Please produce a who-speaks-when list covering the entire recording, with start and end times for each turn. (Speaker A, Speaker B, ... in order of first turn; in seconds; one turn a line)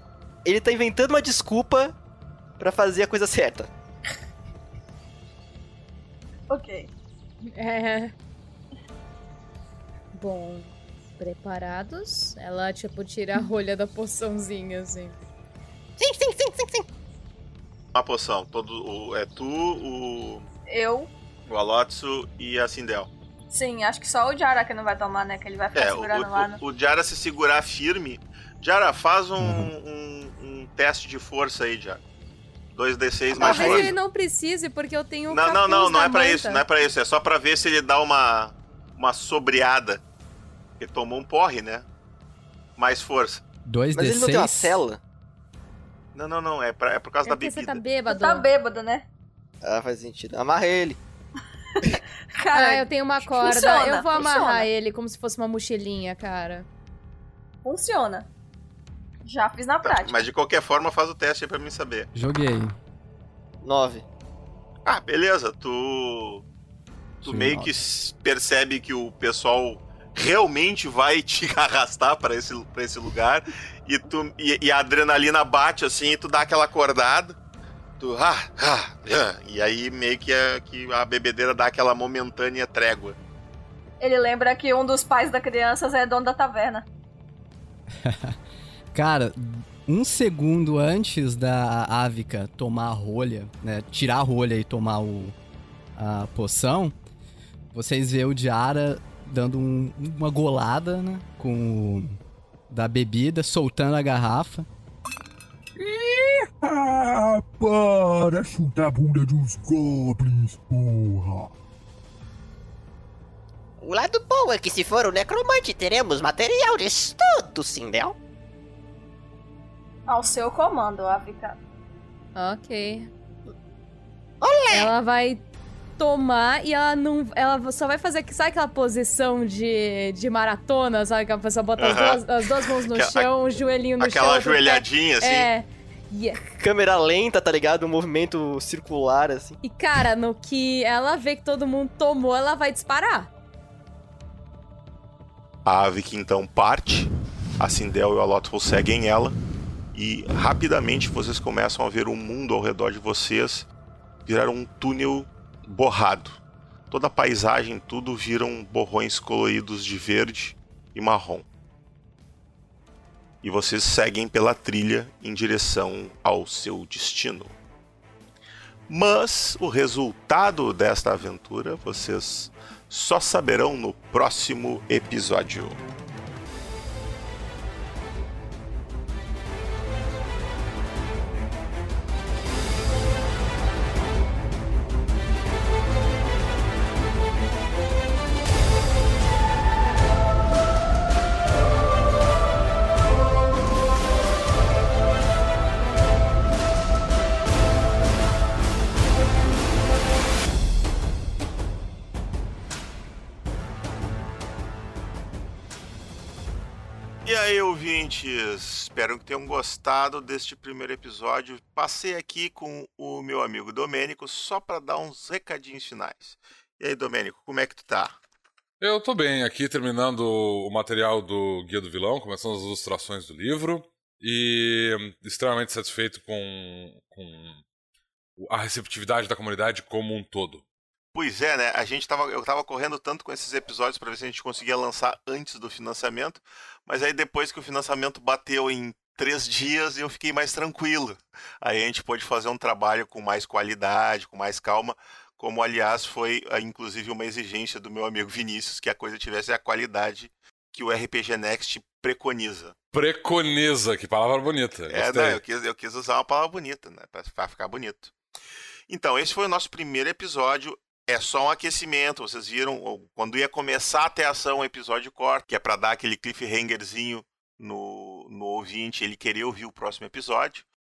Speaker A: 0.4-1.9
Speaker A: 2.6-3.7
Speaker B: 6.5-6.9
Speaker C: 7.5-8.1
Speaker C: 10.1-15.2
Speaker D: 16.0-16.9
Speaker E: 17.9-20.5
Speaker B: 20.7-21.1
Speaker E: 21.5-23.1
Speaker B: 23.5-26.6
Speaker E: 25.7-32.0
Speaker E: 32.7-33.9
Speaker A: 33.3-33.9
Speaker C: 33.4-36.6
Speaker E: 35.3-40.0
Speaker E: 40.8-41.9
Speaker E: 42.8-43.4
Speaker F: 43.7-44.8
Speaker A: 43.9-45.0
Speaker E: 46.1-47.8
Speaker C: 47.2-48.5
Speaker B: 48.0-49.1
Speaker A: 49.6-51.0
Speaker B: 51.8-54.7
Speaker C: 52.5-56.7
Speaker B: 57.6-58.3
Speaker B: 59.2-60.2
Speaker E: 59.8-62.1
Speaker F: 62.1-62.7
Speaker A: 63.6-64.0
Speaker E: 64.8-66.4
Speaker E: 67.2-77.4
Speaker F: 67.2-67.7
Speaker E: 78.0-83.2
Speaker B: 84.0-86.8
Speaker F: 88.0-88.4
Speaker F: 88.9-95.3
Speaker F: 96.0-96.9
Speaker F: 97.7-102.2
Speaker F: 102.7-104.7
Speaker G: 105.8-111.5
Speaker D: 113.8-118.2
Speaker B: 120.1-121.6
Speaker C: 122.3-123.1
Speaker D: 124.4-124.9
Speaker C: 124.7-125.4
Speaker C: 126.0-136.4
Speaker E: 131.8-132.2
Speaker E: 132.9-133.3
Speaker E: 134.0-135.5
Speaker A: 136.6-139.6
Speaker C: 139.6-143.3
Speaker E: 145.6-149.4
Speaker E: 149.9-153.7
Speaker E: 154.2-161.4
Speaker E: 163.4-167.5
Speaker E: 168.9-175.8
Speaker E: 207.2-218.2
Speaker H: 218.8-227.6
Speaker H: 228.4-230.6
Speaker E: 231.1-252.8
Speaker H: 252.9-255.4
Speaker E: 254.9-258.1
Speaker E: 258.9-270.6